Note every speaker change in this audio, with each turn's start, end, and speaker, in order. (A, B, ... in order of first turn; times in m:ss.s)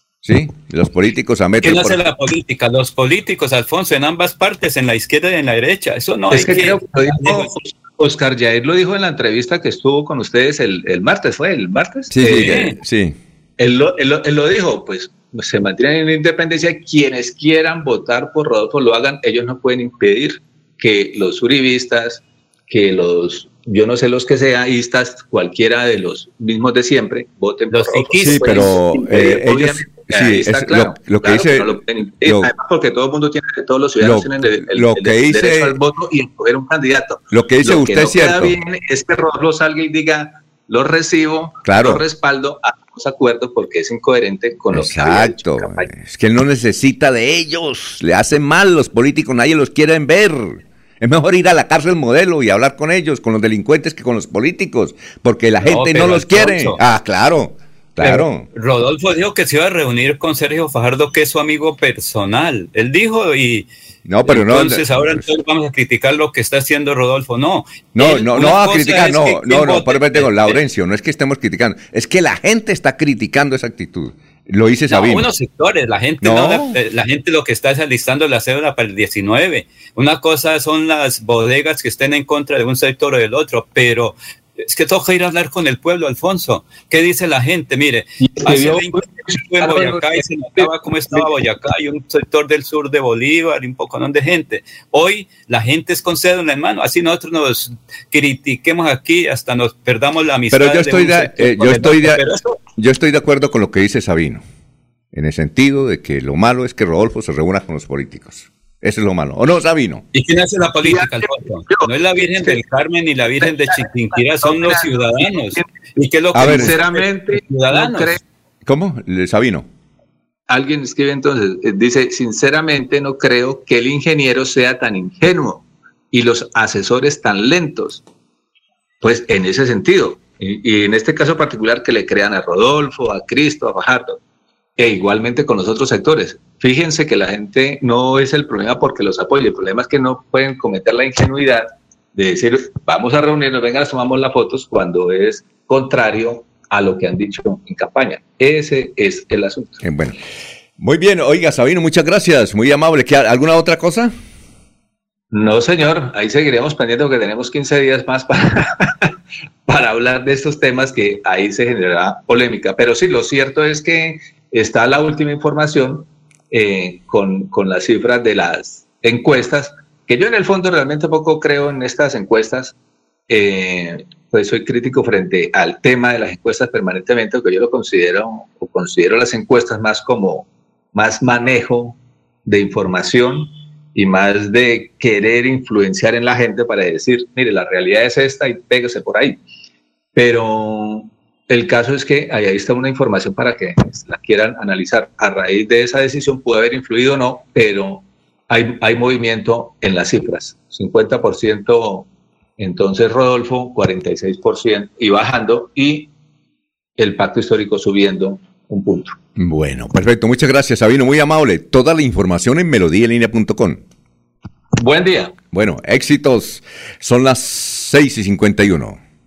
0:00.2-0:02.0 A
0:01.6-0:07.5 B
0:06.3-0:12.7 C
0:12.1-0:13.2 A
0:12.2-0:12.8 B
0:13.6-0:45.9 C
0:27.7-0:28.7 B
0:28.2-0:32.5 A
0:34.0-0:35.8 A
0:37.3-0:38.6 A
0:41.6-0:42.0 A
0:44.7-0:58.5 A
0:55.6-0:56.8 B
0:58.0-1:03.7 B
1:04.0-1:05.2 A
1:04.3-1:10.6 B
1:08.0-1:15.3 A
1:14.9-1:42.4 B
1:16.2-1:16.8 A
1:28.2-1:31.3 C
1:40.5-1:42.2 A
1:42.8-1:44.4 A
1:45.1-1:50.0 A
1:50.1-1:58.2 B
1:50.8-1:52.6 C
1:53.4-1:55.6 C
1:56.3-1:56.8 A
1:56.4-1:58.2 C
1:58.7-1:59.7 A
2:00.5-2:08.0 C
2:09.0-2:14.2 C
2:14.8-2:29.8 C
2:29.8-2:30.2 A
2:30.8-2:34.1 A
2:35.3-2:39.1 C
2:39.7-2:52.7 C
2:53.3-3:09.4 C
3:10.2-3:26.1 C
3:27.0-3:29.2 C
3:29.4-3:33.8 A
3:34.8-3:35.3 C
3:35.5-3:39.0 A